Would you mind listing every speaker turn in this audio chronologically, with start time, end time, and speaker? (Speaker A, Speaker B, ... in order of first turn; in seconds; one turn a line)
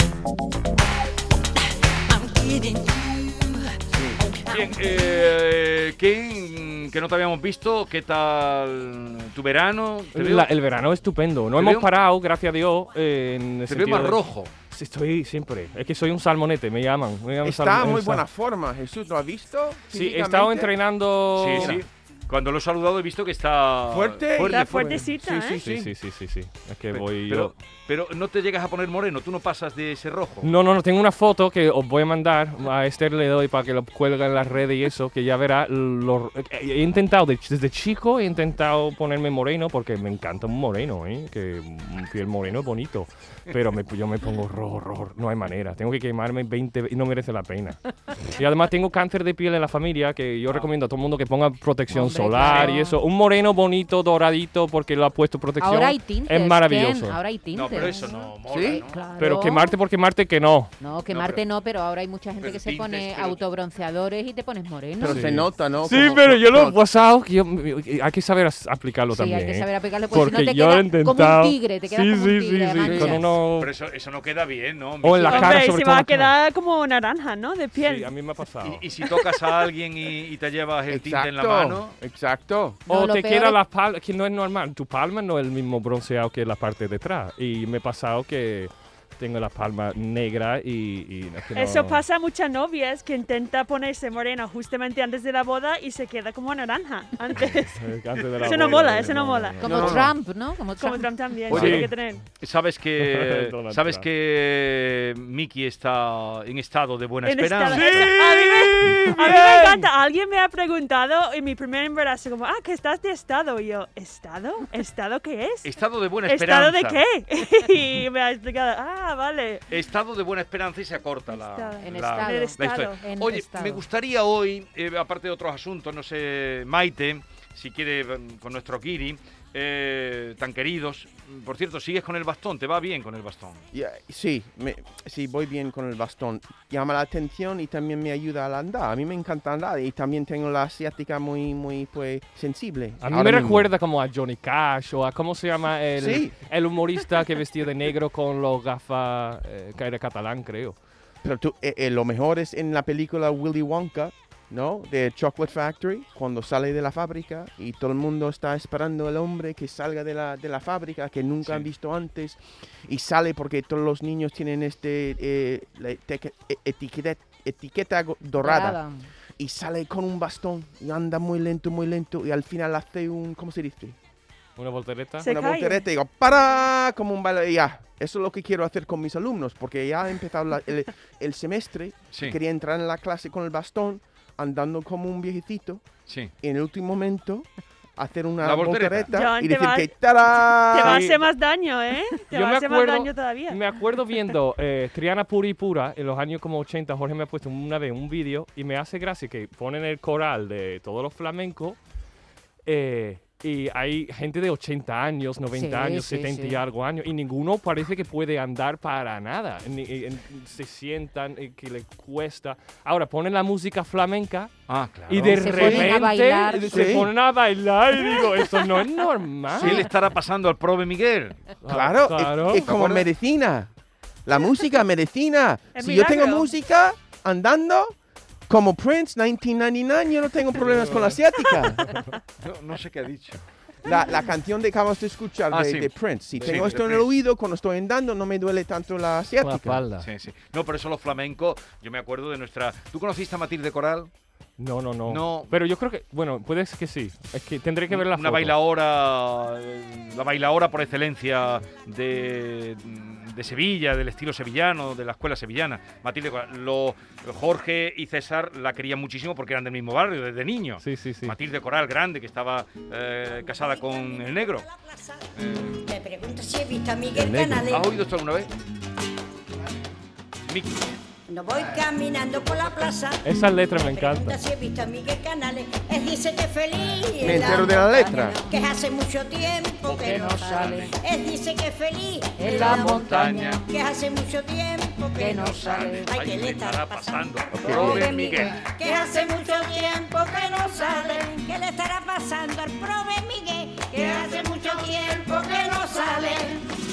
Speaker A: 3.9-4.2
Speaker B: 4.5-10.5
Speaker C: 10.1-18.2
Speaker B: 11.6-11.9
Speaker B: 13.7-14.5
Speaker A: 17.4-20.8
Speaker C: 19.9-21.8
Speaker B: 21.4-25.0
Speaker A: 21.5-21.8
Speaker A: 23.9-25.9
Speaker D: 24.5-25.6
Speaker C: 25.6-27.5
Speaker B: 26.9-30.5
Speaker C: 30.4-57.2
Speaker E: 51.9-53.0
Speaker E: 55.6-59.7
Speaker B: 57.5-59.0
Speaker A: 58.5-58.8
Speaker C: 59.2-60.7
Speaker E: 60.8-65.3
Speaker B: 61.1-61.4
Speaker B: 62.4-63.4
Speaker A: 65.0-66.8
Speaker C: 65.1-73.7
Speaker E: 69.1-73.3
Speaker A: 72.8-73.2
Speaker B: 73.6-75.6
Speaker C: 75.0-76.3
Speaker D: 75.3-78.1
Speaker C: 77.8-78.8
Speaker B: 78.6-82.0
Speaker A: 80.9-82.8
Speaker E: 82.9-83.6
Speaker C: 82.9-92.0
Speaker D: 91.5-99.8
Speaker C: 97.4-100.1
Speaker E: 99.6-101.1
Speaker B: 99.7-100.0
Speaker D: 100.8-102.3
Speaker C: 101.5-101.9
Speaker B: 101.5-109.8
Speaker C: 103.0-104.0
Speaker D: 107.2-115.7
Speaker C: 107.7-108.1
Speaker C: 108.8-109.8
Speaker B: 115.6-117.0
Speaker D: 116.3-119.6
Speaker B: 119.7-133.6
Speaker D: 121.3-123.0
Speaker E: 121.8-123.8
Speaker A: 133.7-143.7
Speaker C: 143.0-150.8
Speaker A: 146.0-146.3
Speaker A: 151.2-168.8
Speaker E: 168.4-169.1
Speaker A: 169.4-174.0
Speaker C: 174.6-175.3
Speaker D: 175.2-175.8
Speaker A: 175.2-185.8
Speaker B: 186.1-186.3
Speaker A: 186.4-191.1
Speaker B: 188.4-189.1
Speaker D: 189.1-189.9
Speaker D: 190.7-193.6
Speaker C: 190.9-191.1
Speaker C: 192.3-201.8
Speaker C: 202.7-214.6
Speaker E: 205.6-206.6
Speaker B: 214.7-215.9
Speaker C: 215.1-219.9
Speaker E: 215.2-217.0
Speaker A: 215.6-215.9
Speaker A: 216.7-217.1
Speaker B: 219.6-221.4
Speaker C: 221.6-222.7
Speaker A: 221.7-223.7
Speaker B: 222.5-223.1
Speaker A: 224.3-228.0
Speaker D: 225.7-226.5
Speaker A: 228.5-232.0
Speaker C: 230.6-231.2
Speaker B: 232.4-233.4
Speaker A: 233.8-239.8
Speaker B: 235.5-237.1
Speaker C: 239.4-240.1
Speaker B: 240.0-244.1
Speaker C: 244.6-248.5
Speaker B: 245.1-245.5
Speaker B: 247.9-264.7
Speaker C: 260.8-261.4
Speaker F: 263.3-265.3
Speaker B: 265.4-265.8
Speaker F: 265.8-267.9
Speaker A: 267.1-267.7
Speaker B: 267.7-268.5
Speaker B: 270.5-270.9
Speaker F: 271.3-277.9
Speaker B: 272.5-272.9
Speaker C: 273.2-274.4
Speaker A: 277.2-278.4
Speaker E: 277.2-278.6
Speaker F: 278.4-296.7
Speaker E: 279.9-280.9
Speaker B: 280.5-280.9
Speaker E: 282.4-283.6
Speaker B: 282.5-283.6
Speaker E: 285.2-286.1
Speaker B: 285.4-288.6
Speaker A: 287.5-288.1
Speaker E: 287.7-288.5